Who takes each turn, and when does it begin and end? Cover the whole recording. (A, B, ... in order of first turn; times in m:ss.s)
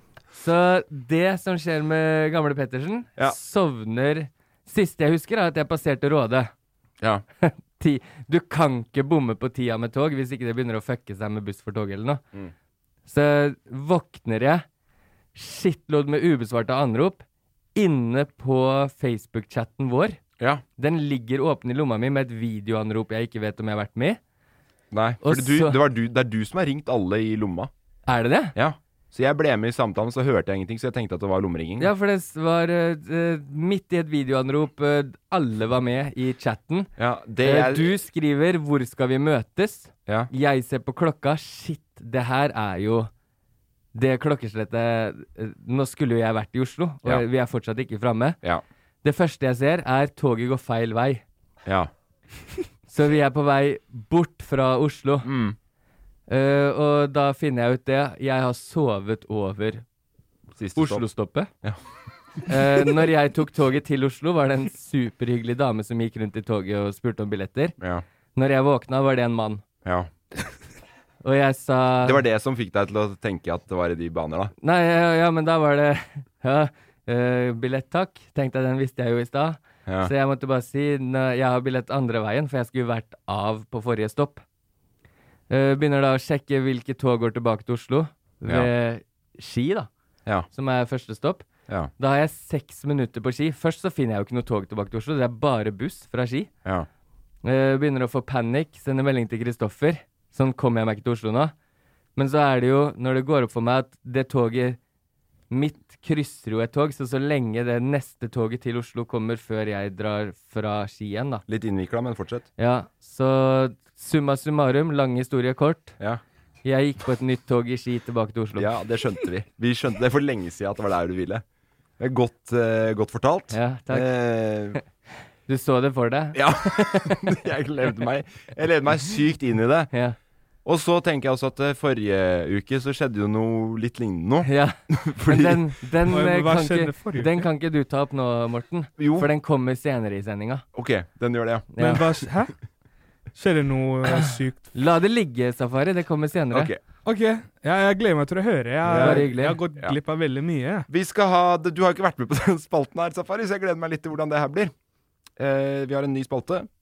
0:00.3-0:06.5 A
0:07.4-0:12.2 A
0:13.1-0:14.6 A
0:15.3-0:17.2 A
0:17.7-0:20.2 A
0:20.8-0:24.2 A
0:24.9-0:27.7 B
0:25.2-0:25.8 A
0:28.0-0:28.5 A
0:28.5-0:31.9 B
0:31.8-0:36.9 A
0:37.0-0:37.9 B
0:37.4-0:43.1 A
0:43.9-0:48.4 A
0:49.0-0:51.2 A
0:51.6-0:51.9 B
0:52.9-0:55.3 A
0:55.2-0:55.6 B
0:56.3-0:59.8 A
1:00.6-1:01.0 B
1:00.8-1:01.5 A
1:02.5-1:07.7 A
1:08.3-1:09.6 A
1:09.8-1:10.1 B
1:11.2-1:12.2 A
1:12.0-1:14.5 B
1:14.6-1:24.4 A
1:19.9-1:20.1 B
1:25.5-1:29.9 A
1:30.5-1:31.4 A
1:32.0-1:36.5 A
1:37.4-1:41.5 A
1:42.2-1:44.8 A
1:45.5-1:51.4 A
1:51.5-1:52.5 B
1:52.6-1:56.0 A
1:56.6-1:58.7 A
1:58.6-2:01.4 B
2:02.0-2:04.8 B
2:03.5-2:04.1 A
2:05.5-2:07.4 A
2:06.3-2:09.9 B
2:09.9-2:10.2 A
2:10.6-2:15.6 B
2:14.4-2:20.6 A
2:16.1-2:17.4 C
2:19.0-2:19.3 B
2:20.7-2:21.7 B
2:21.7-2:22.0 A
2:21.8-2:22.5 C
2:23.4-2:24.6 C
2:24.1-2:26.7 A
2:26.5-2:26.8 B
2:27.0-2:30.9 C
2:28.8-2:29.3 B
2:28.9-2:29.6 A
2:30.9-2:34.7 B
2:35.4-2:36.7 B